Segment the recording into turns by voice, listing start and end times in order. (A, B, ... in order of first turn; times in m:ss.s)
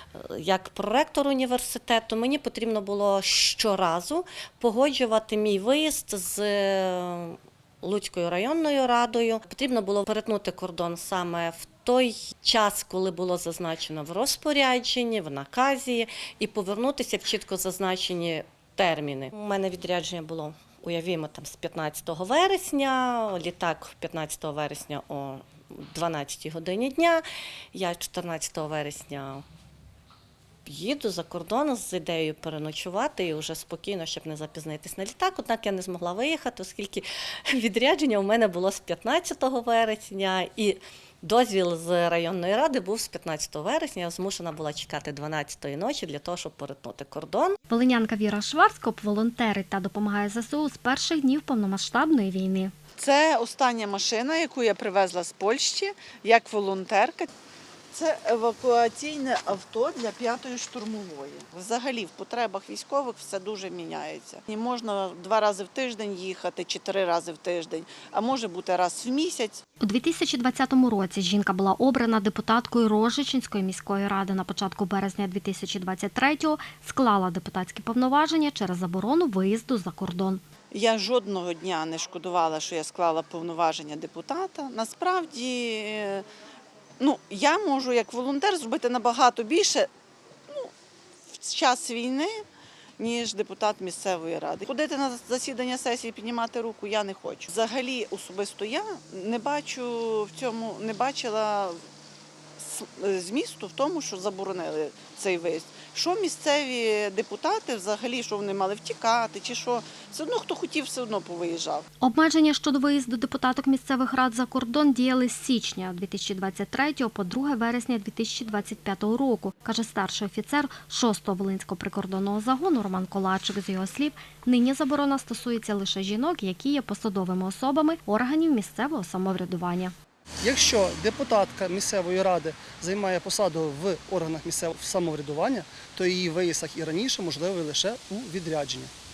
0:00.1-0:29.4 A
0:30.6-0:47.6 A
0:47.7-0:52.7 B
0:53.0-0:57.3 C
0:57.9-1:09.6 C
1:09.8-1:20.4 B
1:20.7-1:26.2 C
1:27.0-1:29.9 C
1:31.3-1:32.4 C
1:33.0-1:41.8 C
1:42.6-1:51.8 C
1:52.0-2:09.9 B
2:10.4-2:18.9 D